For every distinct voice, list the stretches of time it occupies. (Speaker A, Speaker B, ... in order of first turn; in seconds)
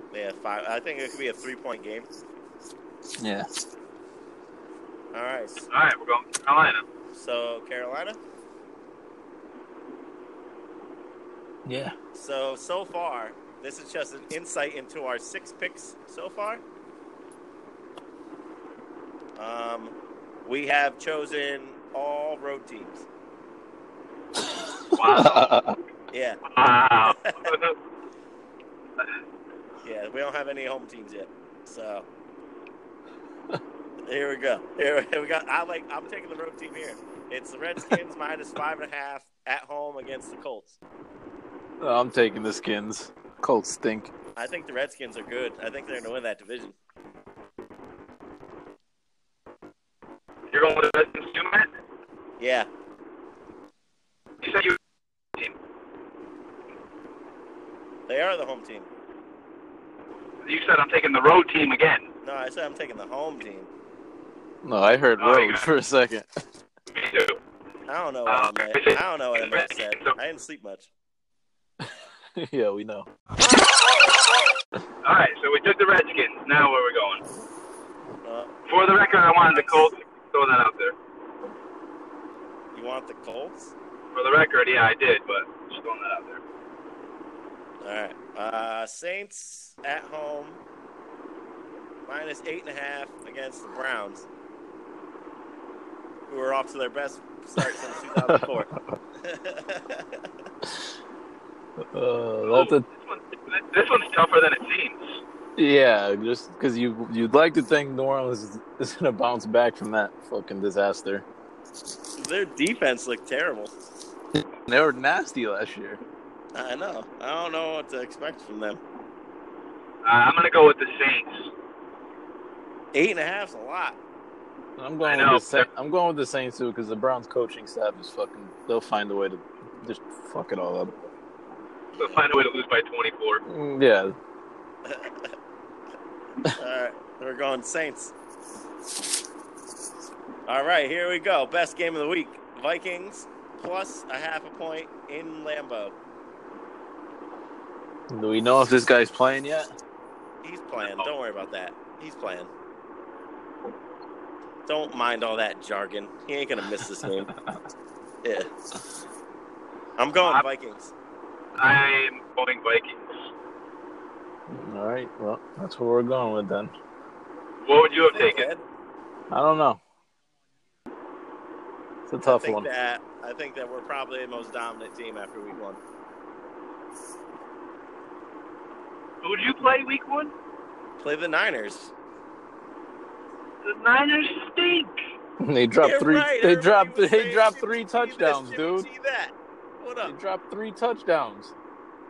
Speaker A: 0.1-2.1, 5.1-5.7, 7.1-8.2, 12.2-16.6, 19.4-23.1, 26.1-26.4, 27.0-27.6, 29.8-32.1, 34.1-40.8, 44.4-46.8, 52.4-52.7, 58.1-58.9, 62.2-63.7, 67.9-70.9, 78.2-79.9, 82.7-83.7, 87.8-90.6, 92.1-94.3, 96.3-100.2, 112.2-113.7, 116.5-118.8, 122.9-124.0, 132.0-132.2, 134.8-135.3, 136.5-138.1, 140.5-145.9, 150.4-152.5, 154.7-157.3, 158.2-158.5, 160.0-160.9, 167.9-168.6, 172.2-175.8, 181.0-181.9, 185.8-190.2
Speaker B: 3.2-3.6, 11.7-11.9, 24.9-25.8, 41.8-44.1, 64.6-66.3, 71.8-73.1, 101.9-102.9, 105.6-111.2, 114.3-116.0, 124.8-131.0, 133.5-134.2, 148.1-149.7, 164.5-166.7, 169.3-169.8, 172.1-172.7, 185.4-188.9, 190.1-191.5
Speaker C: 5.7-6.8, 24.9-25.6, 26.4-27.8, 50.5-51.7, 54.4-54.8, 60.4-62.1, 65.2-65.7, 66.9-67.4, 68.3-70.2, 75.0-77.2, 78.7-81.0, 84.1-86.4, 102.5-105.2, 120.0-121.5, 125.0-125.7, 132.0-133.4, 161.6-163.3, 167.7-168.5, 179.2-180.3, 183.6-184.9